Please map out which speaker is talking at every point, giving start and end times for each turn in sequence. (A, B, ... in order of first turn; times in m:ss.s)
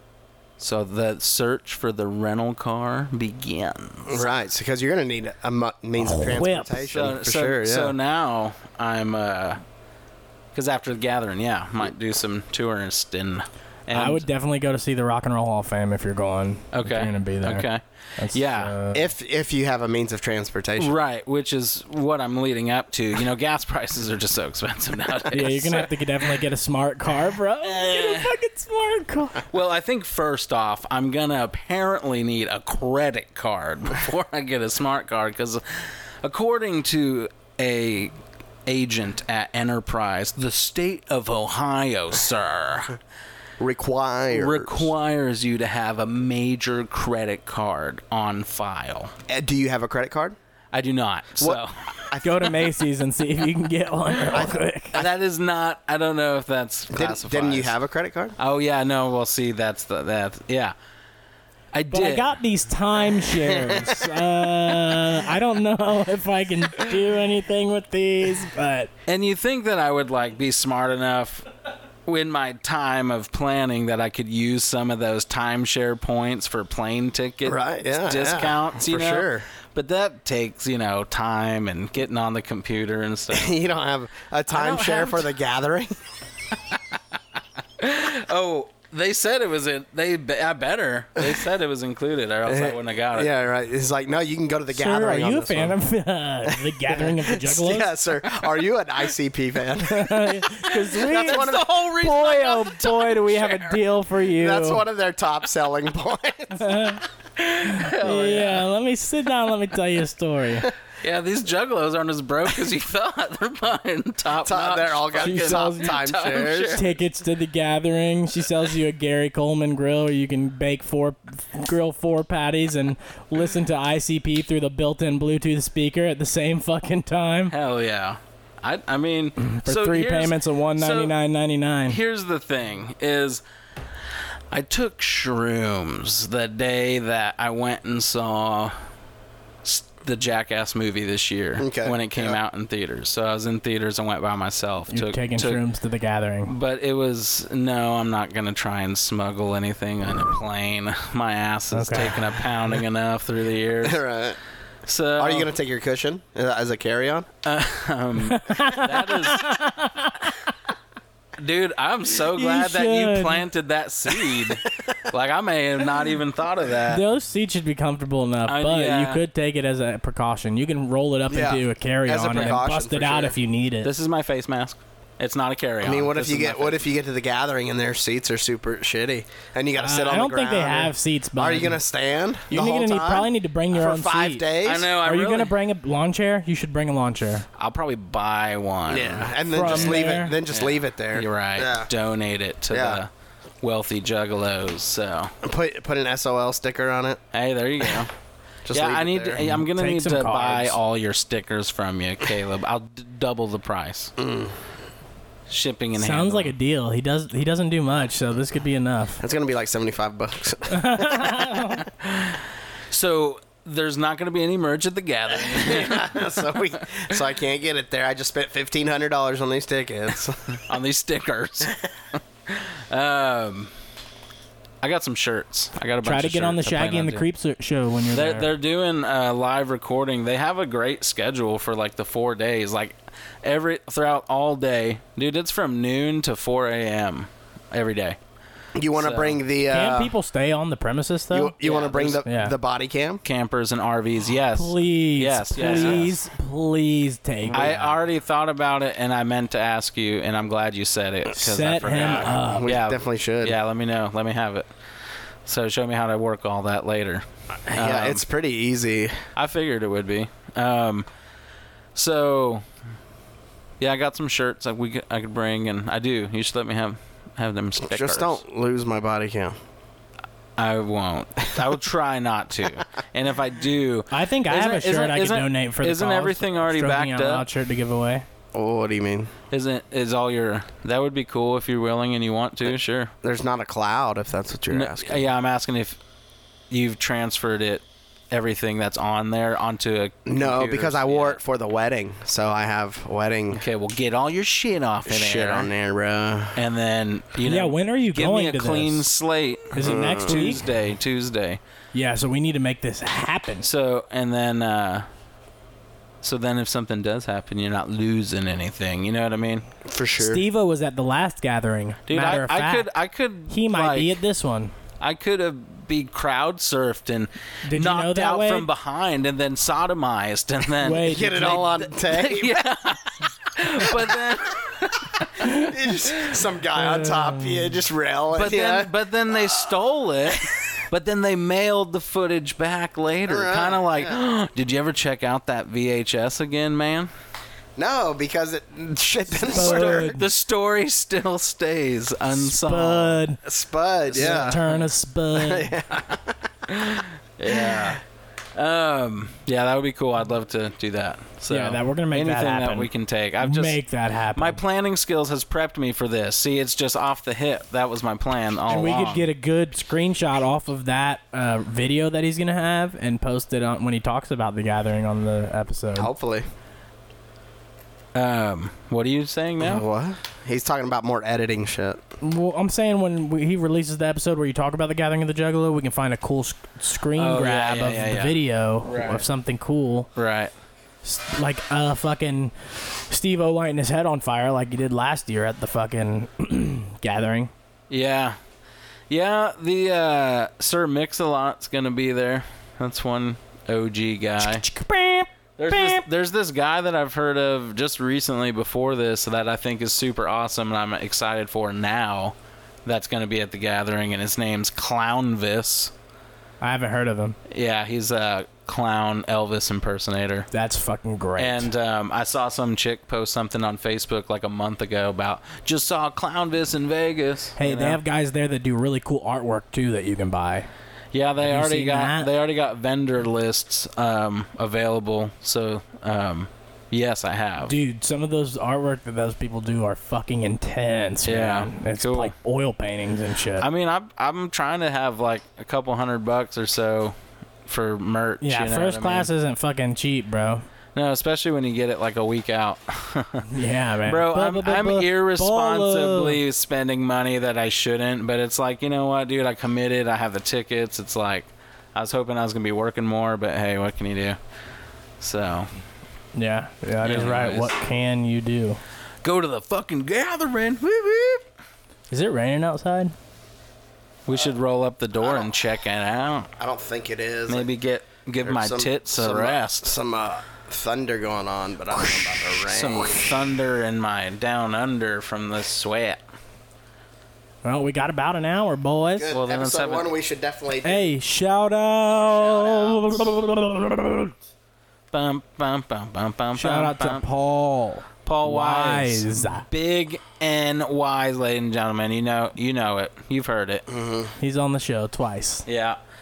0:00.6-0:04.2 A
0:04.1-0:08.0 B
0:06.0-0:06.9 C
0:06.9-0:09.6 A
0:10.5-0:14.2 A
0:13.9-0:19.1 C
0:16.7-0:18.8 A
0:18.9-0:20.9 B
0:20.8-0:25.9 A
0:25.3-0:29.4 C
0:27.6-0:28.3 A
0:29.5-0:38.1 A
0:38.7-0:43.0 A
0:43.6-0:44.9 B
0:44.3-0:49.1 A
0:49.3-0:50.4 B
0:50.7-0:52.1 A
0:51.4-0:52.5 B
0:52.2-0:55.0 C
0:54.3-0:54.6 B
0:54.9-0:57.7 A
0:56.9-0:58.4 B
0:58.4-1:00.8 A
1:01.7-1:02.3 A
1:01.9-1:08.9 C
1:03.6-1:04.0 B
1:09.1-1:11.5 A
1:12.1-1:23.6 A
1:17.5-1:19.5 B
1:23.3-1:26.0 B
1:24.5-1:25.3 A
1:26.7-1:27.0 A
1:27.8-1:33.3 A
1:32.4-1:35.8 B
1:34.7-1:37.9 C
1:36.5-1:41.7 B
1:39.8-1:44.8 C
1:40.8-1:43.8 A
1:44.4-1:46.9 B
1:46.6-1:50.7 C
1:47.6-1:48.7 A
1:51.0-1:56.9 A
1:54.4-1:56.8 B
1:55.2-1:56.0 C
1:56.7-2:07.5 C
2:07.5-2:11.2 A
2:09.4-2:12.0 C
2:11.9-2:13.4 A
2:14.5-2:18.8 A
2:19.6-2:25.6 A
2:21.6-2:22.4 B
2:24.9-2:26.5 C
2:26.5-2:34.0 A
2:31.7-2:32.2 C
2:33.8-2:34.4 B
2:34.9-2:35.5 A
2:35.2-2:37.3 B
2:37.4-2:39.6 A
2:38.3-2:40.4 C
2:41.4-2:47.0 A
2:42.3-2:43.4 C
2:46.9-2:53.9 C
2:48.5-2:49.2 A
2:51.3-2:53.4 B
2:53.8-2:56.8 A
2:55.8-3:04.9 B
2:59.8-3:01.8 C
3:02.5-3:07.5 C
3:04.6-3:05.5 A
3:07.6-3:13.1 A
3:08.9-3:11.9 B
3:09.5-3:10.4 C
3:12.7-3:13.0 B
3:13.6-3:15.3 A
3:15.4-3:17.2 B
3:17.3-3:18.1 A
3:18.6-3:19.4 B
3:18.7-3:24.1 A
3:19.4-3:20.8 C
3:24.2-3:24.7 B
3:25.5-3:26.5 A
3:26.0-3:29.2 C
3:29.2-3:31.5 B
3:30.7-3:31.8 C
3:32.0-3:32.4 A
3:32.9-3:36.3 A
3:35.3-3:40.6 B
3:40.5-3:43.7 A
3:44.8-3:47.3 A
3:46.0-3:48.5 C
3:48.1-3:58.2 A
3:58.8-4:00.1 B
3:59.0-3:59.4 A
3:59.7-4:01.6 C
4:01.3-4:03.2 B
4:01.6-4:02.2 A
4:02.2-4:02.5 C
4:03.2-4:06.1 A
4:04.6-4:07.9 C
4:05.6-4:06.1 B
4:07.5-4:07.8 B
4:07.5-4:14.7 A
4:11.4-4:12.7 C
4:12.0-4:13.6 B
4:15.5-4:18.2 A
4:17.7-4:19.2 B
4:19.4-4:21.1 A
4:22.0-4:22.6 A
4:23.8-4:28.4 A
4:27.8-4:29.6 B
4:30.6-4:37.5 A
4:34.1-4:38.3 C
4:38.5-4:39.3 B
4:39.5-4:43.1 A
4:43.2-4:45.2 B
4:44.7-4:46.0 A
4:46.7-4:51.4 A
4:50.3-4:53.6 B
4:53.5-4:55.7 A
4:55.1-4:56.6 B
4:56.6-5:01.6 A
4:57.5-4:59.0 C
4:59.7-5:00.6 C
4:59.8-5:00.6 B
5:01.9-5:03.7 C
5:03.6-5:05.1 A
5:06.2-5:09.7 A
5:09.8-5:10.4 B
5:10.2-5:12.9 C
5:12.1-5:14.2 A
5:13.5-5:14.8 C
5:15.0-5:25.5 A
5:17.7-5:18.7 C
5:20.8-5:21.8 C
5:21.1-5:22.6 B
5:23.8-5:24.2 B
5:25.4-5:29.5 B
5:25.4-5:25.7 C
5:26.8-5:27.8 C
5:28.3-5:37.1 A
5:33.3-5:34.2 B
5:37.8-5:40.2 B
5:39.4-5:40.2 C
5:39.5-5:43.2 A
5:42.3-5:43.4 C
5:43.4-5:44.6 B
5:44.1-5:45.7 C
5:44.2-5:44.6 A
5:45.4-5:46.4 B
5:46.7-5:48.0 A
5:47.5-5:48.0 B
5:48.6-5:53.8 A
5:51.5-5:52.9 C
5:53.4-5:54.6 C
5:54.4-5:59.3 A
5:58.7-6:06.1 C
6:06.0-6:06.5 B
6:08.2-6:09.8 A
6:09.6-6:12.0 B
6:12.2-6:20.1 C
6:17.2-6:19.2 A
6:20.2-6:20.5 A
6:21.0-6:27.5 C
6:27.9-6:28.4 A
6:29.1-6:34.6 A
6:34.4-6:36.0 C
6:35.6-6:45.9 A
6:46.6-6:47.4 C
6:47.5-6:50.5 A
6:50.5-6:51.7 C
6:51.4-6:58.0 A
6:57.6-7:00.7 C
7:01.1-7:07.8 A
7:01.4-7:02.3 C
7:07.6-7:13.7 C
7:11.3-7:12.3 A
7:13.6-7:17.2 A
7:17.7-7:19.3 A
7:18.4-7:20.6 C
7:21.0-7:23.5 A
7:23.5-7:26.4 C
7:24.0-7:34.4 A
7:35.2-7:35.7 A
7:36.4-7:38.8 C
7:37.0-7:37.7 A
7:39.2-7:41.4 A
7:42.1-7:43.1 C
7:44.3-7:46.5 A
7:45.2-7:45.6 B
7:46.6-7:47.7 B
7:47.5-7:49.9 A
7:48.4-7:53.4 B
7:52.6-7:56.2 A
7:57.6-7:59.3 C
7:59.2-8:01.1 B
7:59.3-8:00.1 A
8:00.8-8:04.3 C
8:02.3-8:03.1 B
8:05.1-8:07.2 A
8:06.6-8:09.7 C
8:08.2-8:13.9 A
8:13.9-8:14.3 B
8:14.4-8:15.6 C
8:15.7-8:16.0 A